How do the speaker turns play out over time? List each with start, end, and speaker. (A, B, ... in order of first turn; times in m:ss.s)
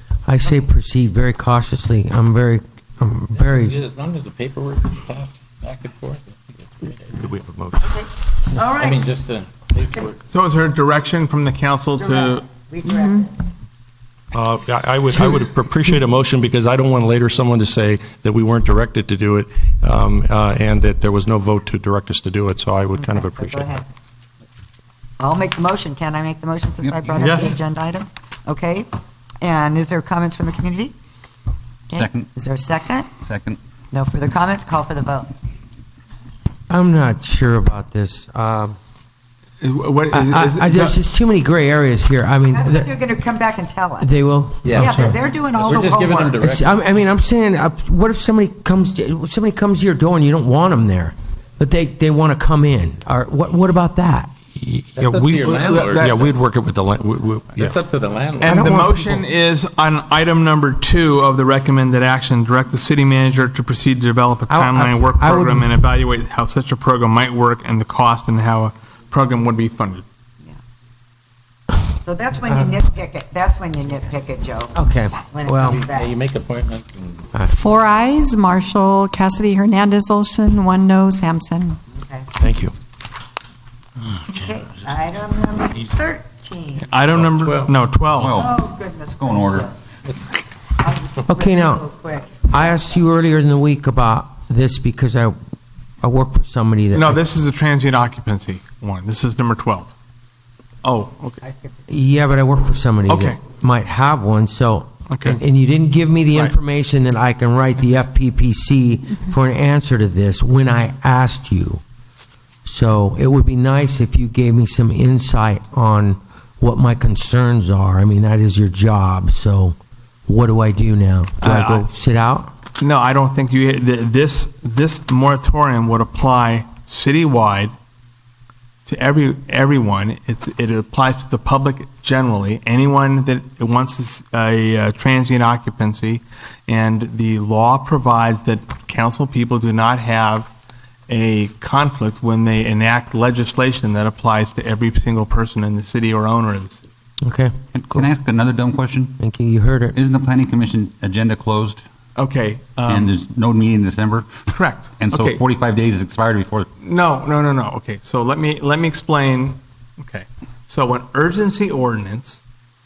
0:00.2-0:03.8 A
0:03.4-0:07.2 B
0:07.1-0:08.0 C
0:07.8-0:09.0 D
0:08.6-0:10.2 B
0:10.3-0:12.4 E
0:12.0-0:13.3 D
0:12.8-0:13.2 F
0:14.3-0:23.7 C
0:23.0-0:23.8 D
0:25.2-0:28.9 D
0:26.8-0:27.6 G
0:29.4-0:30.9 D
0:31.9-0:33.1 D
0:32.0-0:32.3 G
0:33.2-0:33.6 G
0:33.9-0:35.3 D
0:36.7-0:38.8 A
0:39.6-0:41.0 E
0:40.1-0:42.9 A
0:42.5-0:44.1 D
0:44.0-0:45.1 A
0:44.6-0:45.0 B
0:44.7-0:46.4 D
0:45.5-0:46.8 B
0:46.4-0:54.3 A
0:54.5-0:57.8 C
0:55.0-0:56.3 B
0:55.5-0:56.1 E
0:57.6-0:58.7 B
0:58.4-0:59.3 A
0:58.4-1:10.0 E
1:04.5-1:05.9 A
1:12.0-1:16.1 D
1:14.7-1:15.8 A
1:15.8-1:17.2 B
1:17.3-1:17.6 A
1:17.5-1:21.8 F
1:21.9-1:22.3 D
1:22.4-1:22.7 C
1:24.0-1:24.6 B
1:24.3-1:27.3 D
1:26.8-1:28.3 E
1:27.4-1:27.8 B
1:28.1-1:28.7 G
1:28.3-1:29.9 D
1:29.2-1:29.7 G
1:30.8-1:33.0 D
1:31.3-1:31.8 A
1:32.5-1:35.4 A
1:36.0-1:37.2 A
1:36.9-1:39.9 E
1:40.8-1:41.4 E
1:41.4-1:41.7 D
1:41.9-1:51.8 A
1:43.1-1:43.4 E
1:45.1-1:45.4 E
1:52.6-1:59.8 A
2:00.3-2:02.5 A
2:01.4-2:01.8 E
2:02.8-2:07.7 E
2:08.8-2:20.5 E
2:21.1-2:26.8 E
2:27.2-2:28.1 A
2:27.7-2:29.1 G
2:29.2-2:30.0 A
2:29.9-2:31.8 G
2:32.2-2:33.0 E
2:32.8-2:36.7 G
2:34.5-2:35.4 E
2:36.8-2:42.4 E